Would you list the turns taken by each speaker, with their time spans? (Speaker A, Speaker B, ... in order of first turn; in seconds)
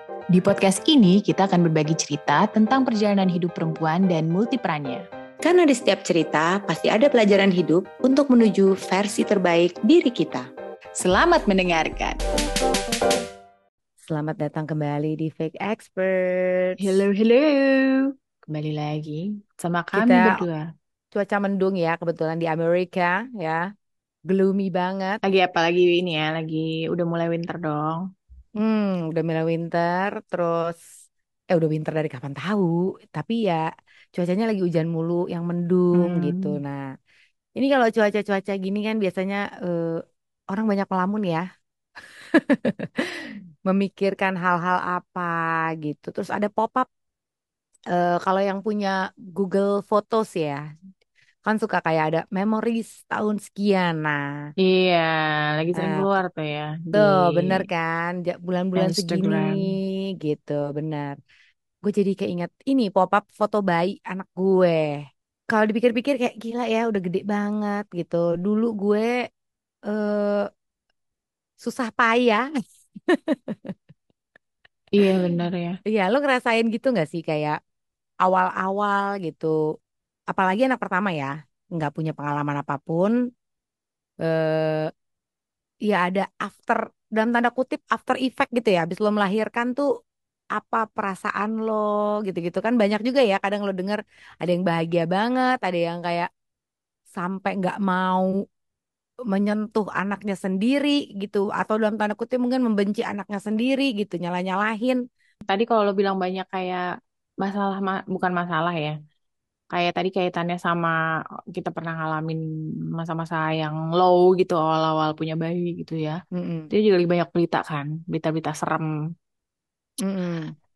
Speaker A: 0.3-5.0, 11.0-12.2, 16.8-20.6, 25.2-28.0, 36.0-36.5, 54.6-57.6, 58.8-59.7, 74.9-75.7, 105.5-106.8, 107.4-108.9, 109.7-110.9, 111.5-112.4, 113.0-116.2, 116.7-118.8
Speaker B: 5.4-10.4, 14.1-16.9, 19.9-20.4, 21.1-23.6, 24.3-25.2, 28.6-30.8, 31.5-33.6, 34.1-36.8, 37.6-41.4, 42.3-46.9, 47.9-50.6, 51.5-54.2, 55.8-56.1, 56.9-61.1, 61.8-64.8, 65.5-69.1, 69.9-70.4, 71.6-72.4, 73.1-73.7, 75.9-77.5, 78.2-79.5, 80.3-83.1, 84.2-84.9, 85.9-89.8, 90.6-96.3, 97.2-98.3, 99.3-105.0, 116.3-116.7, 120.0-120.5